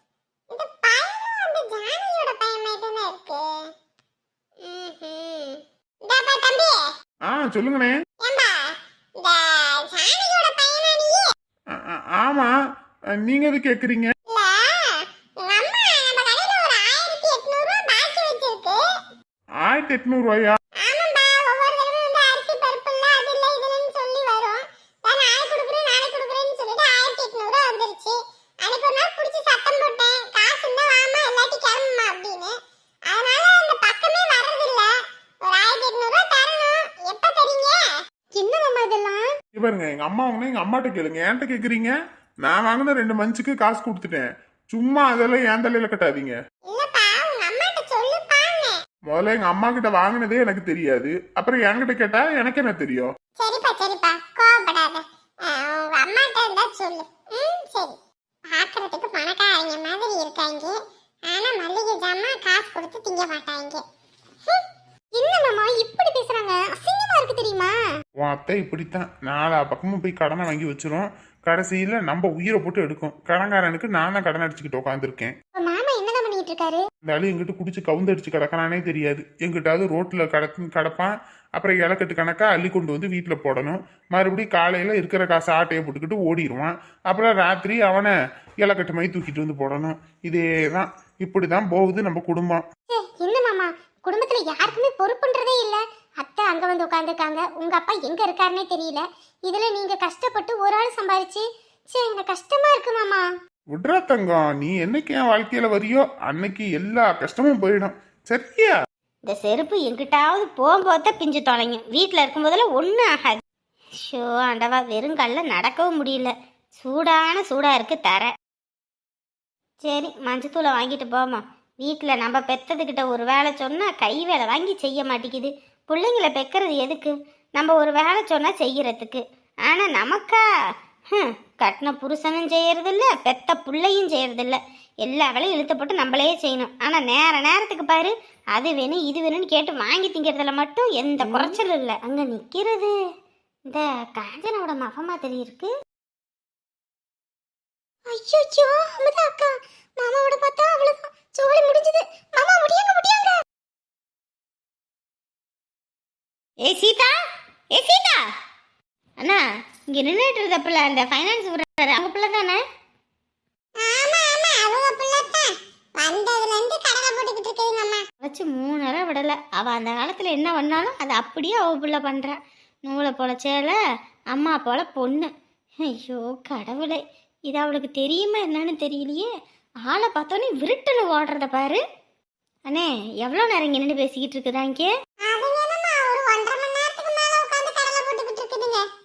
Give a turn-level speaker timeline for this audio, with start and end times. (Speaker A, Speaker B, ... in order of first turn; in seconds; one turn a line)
Speaker A: 0.5-3.7
Speaker A: 4.6-6.9
Speaker B: 7.2-7.9
Speaker A: 8.2-11.3
Speaker B: 11.7-12.5
Speaker B: 13.2-14.1
Speaker A: 14.3-18.8
Speaker B: 19.6-20.6
Speaker A: 20.8-32.5
Speaker A: 33.1-34.9
Speaker A: 35.5-39.3
Speaker B: 39.5-41.9
Speaker B: 42.4-46.3
Speaker A: 46.6-48.8
Speaker B: 49.1-53.1
Speaker A: 53.4-57.9
Speaker A: 58.5-60.7
Speaker A: 61.3-63.8
Speaker A: 65.1-67.7
Speaker B: 68.2-75.3
Speaker A: 75.6-76.9
Speaker B: 77.0-92.6
Speaker A: 92.9-103.2
Speaker B: 103.7-108.7
Speaker C: 109.3-113.4
Speaker C: 114.0-118.3
Speaker C: 119.8-130.4
Speaker C: 131.1-142.9
Speaker C: 143.7-145.7
Speaker A: 148.1-153.4
Speaker C: 156.6-157.1
Speaker C: 157.7-158.2
Speaker C: 159.2-162.6
Speaker A: 163.8-168.0
Speaker C: 168.2-173.8
Speaker C: 174.3-175.3
Speaker C: 175.9-179.3
Speaker C: 179.8-181.8
Speaker C: 182.7-184.9
Speaker A: 185.2-188.9